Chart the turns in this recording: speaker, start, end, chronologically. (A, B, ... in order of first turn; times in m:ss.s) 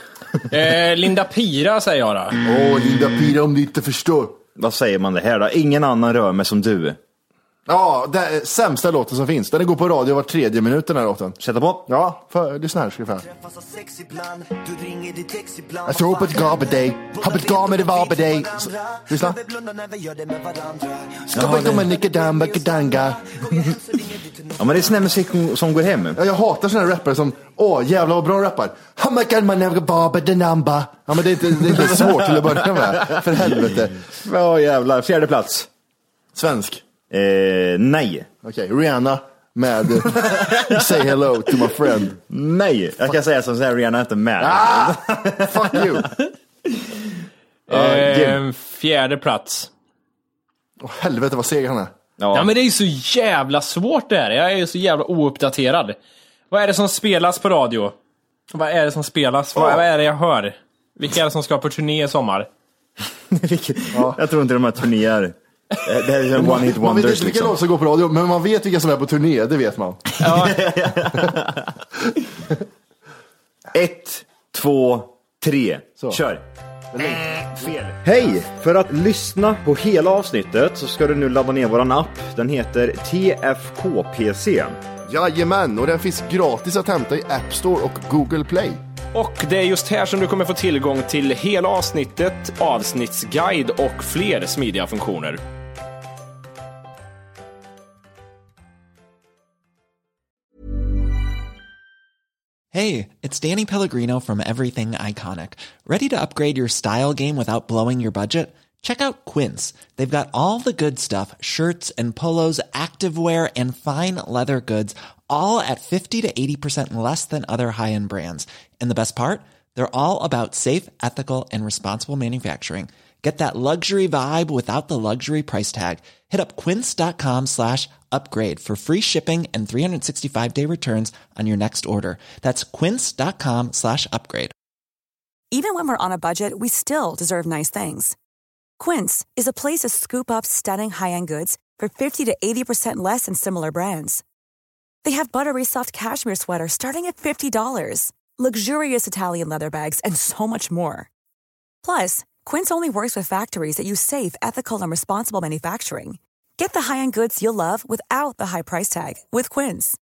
0:00.5-0:02.4 A
0:02.4-0:04.4 B
0:04.6-0:07.0 C
0:07.7-0:11.4 B
0:11.4-0:11.8 C
0:11.9-0:13.3 B
0:15.8-0:19.4 B
0:21.2-0:23.3 B
0:21.3-0:21.9 C
0:23.5-0:23.8 C
0:24.6-0:26.2 C
0:26.1-0:34.1 B
0:31.7-0:35.7 C
0:36.3-0:36.8 B
0:37.1-0:38.3 C
0:38.4-0:42.2 B
0:40.1-0:40.9 C
0:42.3-0:46.1 C
0:44.4-0:46.1 B
0:47.7-0:49.7 A
0:47.9-0:48.4 C
0:50.8-0:51.9 B
0:52.2-0:52.5 C
0:52.3-0:56.0 A
0:56.5-0:57.9 A
0:58.5-1:02.5 A
1:03.3-1:07.6 C
1:03.9-1:04.2 B
1:06.3-1:10.1 B
1:10.2-1:10.6 A
1:10.2-1:11.7 C
1:13.7-1:16.4 C
1:16.9-1:18.3 B
1:17.1-1:24.8 C
1:25.1-1:28.8 B
1:29.1-1:35.4 D
1:42.7-2:14.5 E
2:15.5-2:18.2 F
2:18.8-2:24.2 F
2:25.0-2:31.1 F
2:31.8-2:40.0 F